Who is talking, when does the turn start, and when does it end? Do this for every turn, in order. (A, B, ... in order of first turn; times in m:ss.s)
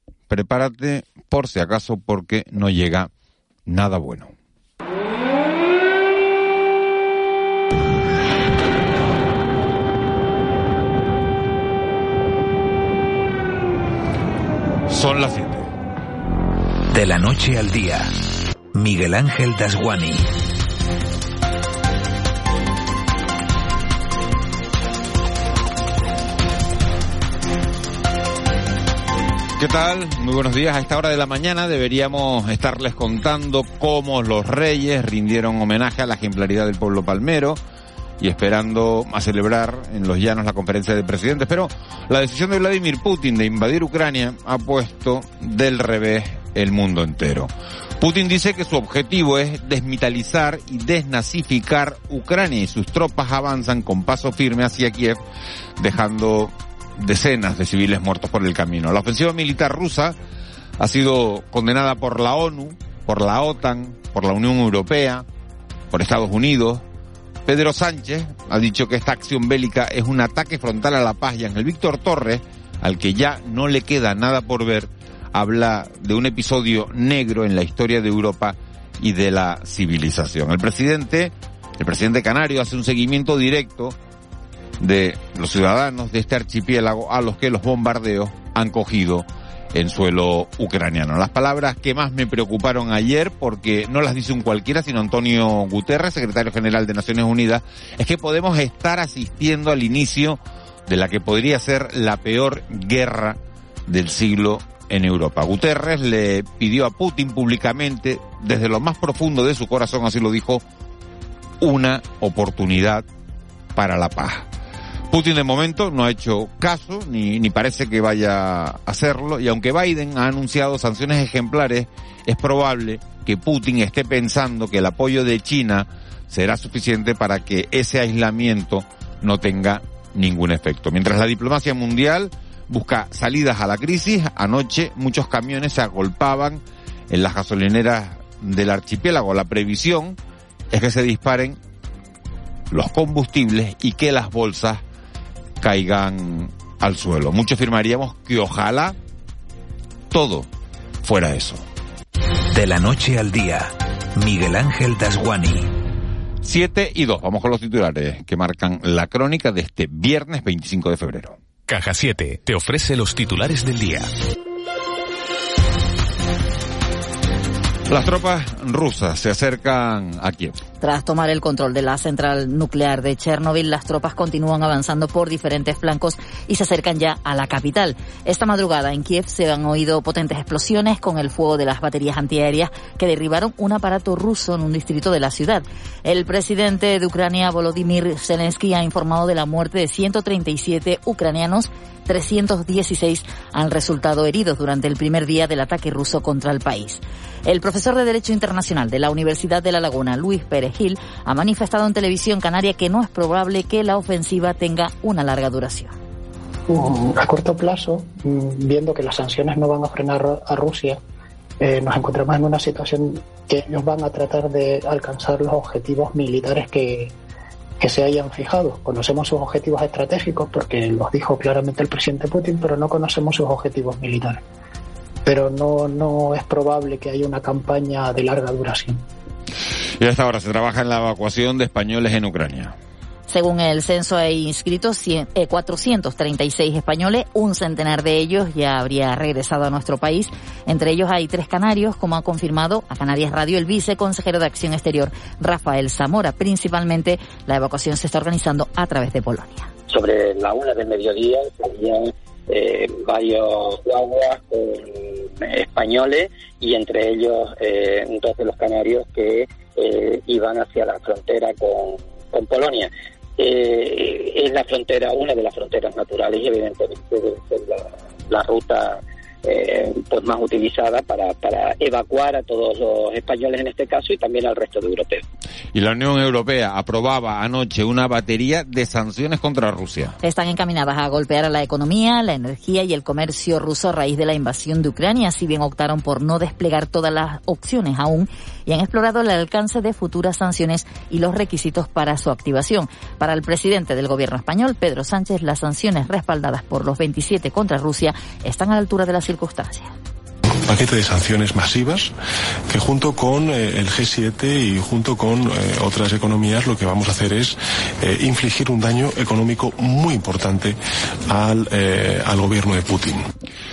0:00.3-0:03.1 A
0:03.6-0:04.3 A
0:14.9-0:15.7 A
0:16.9-0:18.1 B
0:18.7-0:20.3 B
0:29.6-0:37.6 A
0:38.2-0:55.2 A
0:55.8-1:00.2 A
1:00.8-1:05.2 A
1:05.9-1:06.8 A
1:07.4-1:24.0 A
1:24.8-1:50.6 A
1:51.6-1:53.0 A
1:53.7-1:54.4 A
1:55.1-2:20.2 A
2:20.7-2:21.6 A
2:22.7-2:24.8 A
2:25.6-2:29.0 A
2:30.1-2:30.5 A
2:31.0-2:31.6 A
2:32.5-2:35.7 B
2:36.4-2:41.4 A
2:41.7-2:44.1 B
2:47.9-2:50.6 A
2:50.8-3:25.9 C
3:26.7-3:31.0 D
3:31.6-3:37.1 D
3:37.8-3:44.4 D
3:45.2-3:49.0 D
3:50.0-3:52.7 A
3:53.3-4:09.7 C
4:09.9-4:35.2 E
4:35.7-4:40.2 A
4:40.2-4:59.9 C
5:00.6-5:02.1 F
5:02.7-5:13.2 F